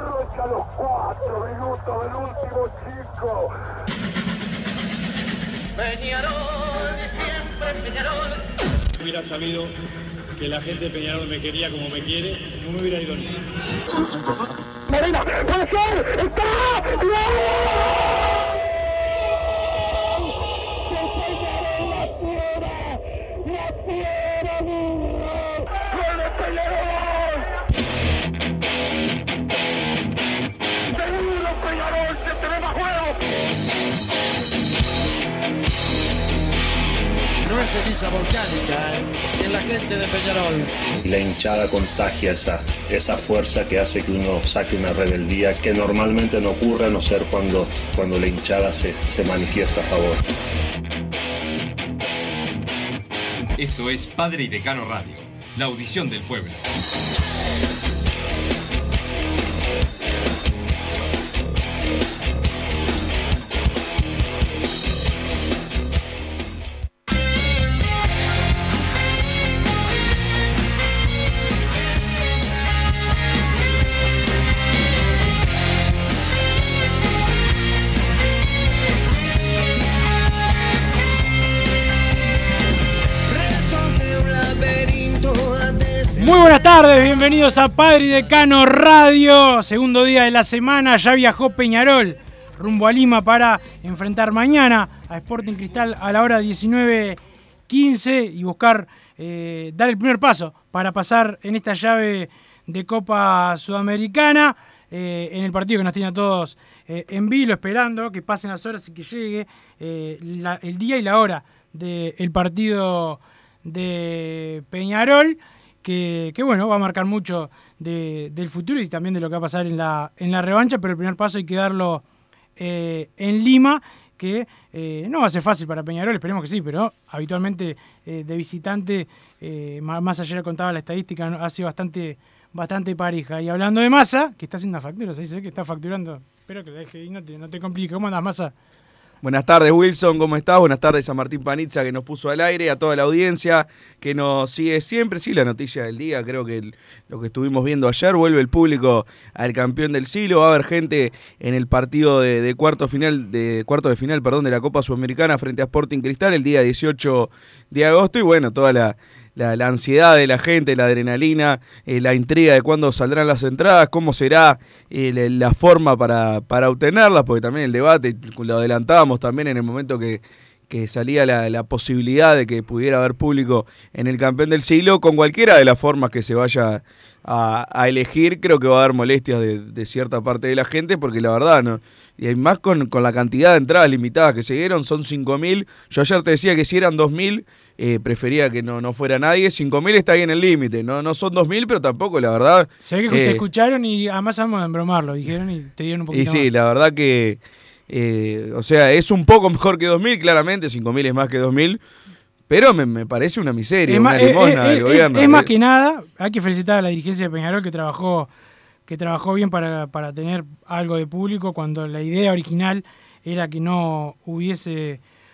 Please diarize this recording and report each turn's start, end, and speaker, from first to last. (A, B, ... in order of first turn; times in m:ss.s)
0:00.6-0:03.5 A
0:05.9-0:06.3 B
0:09.0-0:09.7 C
0:10.4-0:13.5 C
0:37.4-0:40.7 B
0:41.0-0:50.2 D
0:53.6-0:56.6 E
1:23.3-1:26.5 A
1:26.2-2:02.0 F
2:02.6-2:18.5 F
2:19.2-3:13.4 G
3:12.8-3:16.5 F
3:16.1-3:21.8 G
3:22.5-3:25.5 G
3:23.9-3:28.3 F
3:28.9-3:35.0 F